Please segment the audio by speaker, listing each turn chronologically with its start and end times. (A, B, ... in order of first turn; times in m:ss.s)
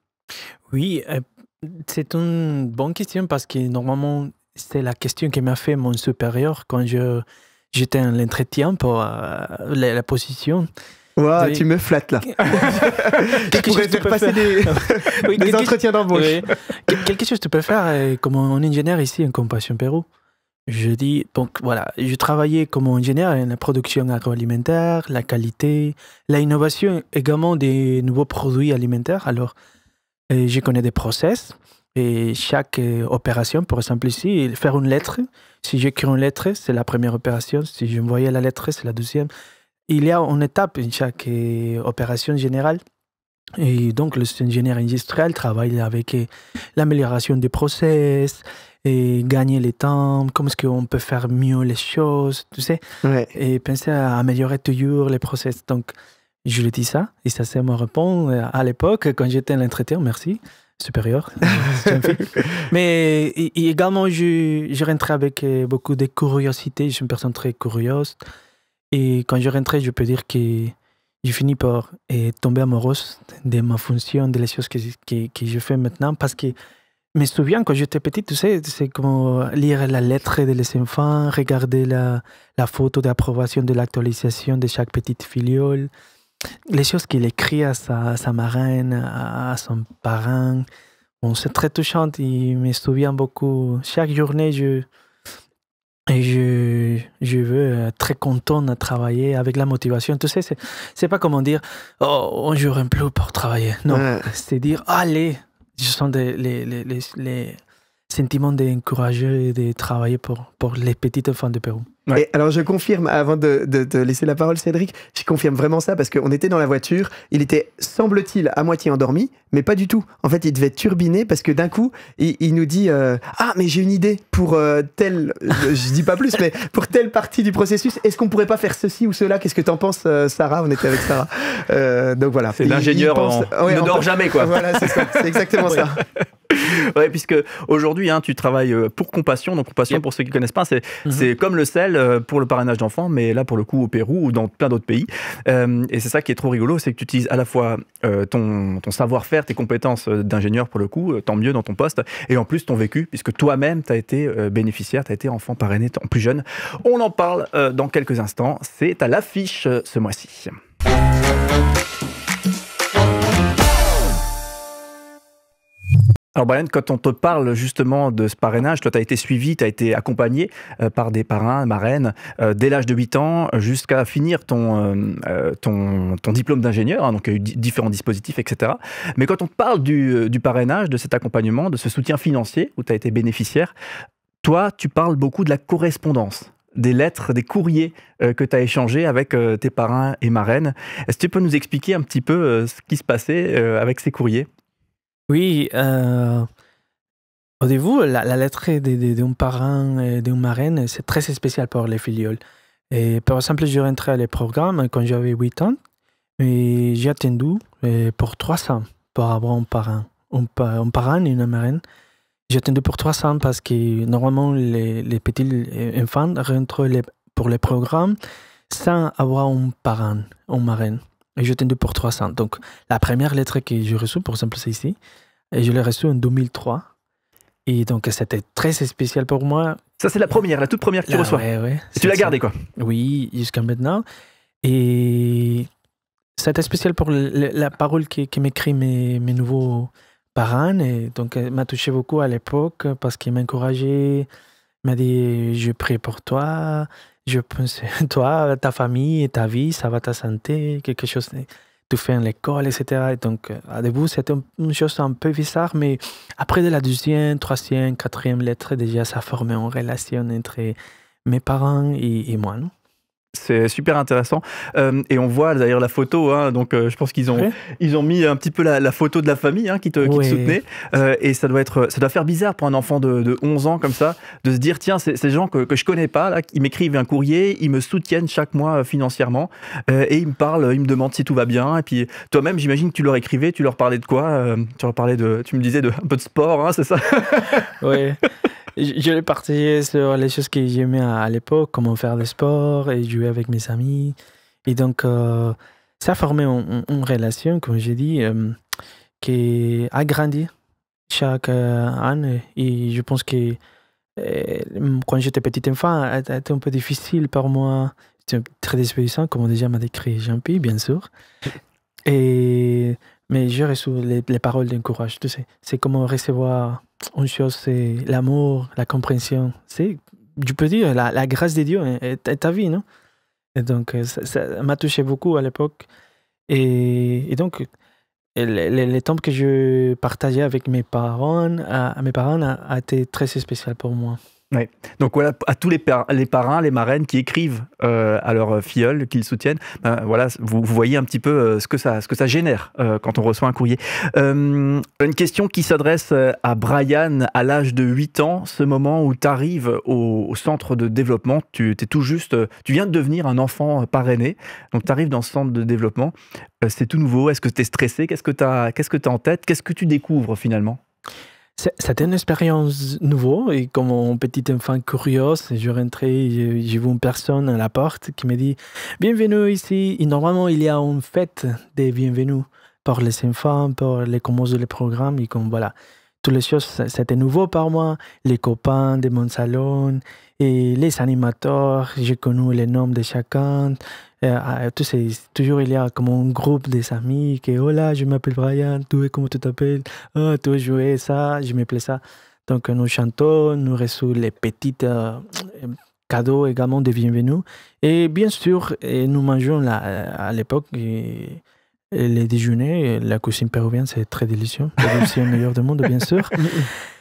0:00.7-0:10.7 A
0:11.2-0:16.4 B
0:11.4-0:11.6 A
0:12.3-0:20.0 A
0:20.7-0:29.5 A
0:30.3-0:39.3 A
0:39.9-0:42.8 A
0:43.6-0:52.8 A
0:53.0-0:53.3 B
0:53.3-0:55.9 A
0:56.4-1:08.2 A
1:08.9-1:16.5 A
1:17.2-1:25.9 A
1:26.7-1:30.6 A
1:31.2-1:34.8 A
1:36.1-1:51.9 A
1:43.9-1:44.3 B
1:52.1-2:16.0 B
2:12.6-2:15.9 C
2:16.5-2:40.6 C
2:46.3-3:03.7 C
3:04.4-3:14.5 C
3:15.3-3:16.5 A
3:17.6-3:22.4 A
3:22.9-3:25.8 A
3:26.4-3:31.8 A
3:32.5-3:38.2 A
3:38.7-3:45.0 A
3:45.5-3:46.9 A
3:47.6-3:49.8 A
3:50.0-3:51.4 C
3:51.1-3:54.0 A
3:52.0-3:52.5 C
3:54.6-3:55.7 A
3:56.4-4:04.3 A
4:04.8-4:22.7 A
4:23.3-4:47.7 C
4:30.0-4:30.6 A
4:47.8-4:48.2 A
4:48.8-4:54.1 A
4:54.7-4:58.6 A
4:59.2-5:00.5 A
5:01.1-5:03.6 A
5:04.2-5:11.1 A
5:12.0-5:22.8 A
5:23.6-5:25.9 A
5:26.5-5:27.7 A
5:28.4-5:34.2 A
5:34.5-6:00.8 C
6:01.6-6:46.6 A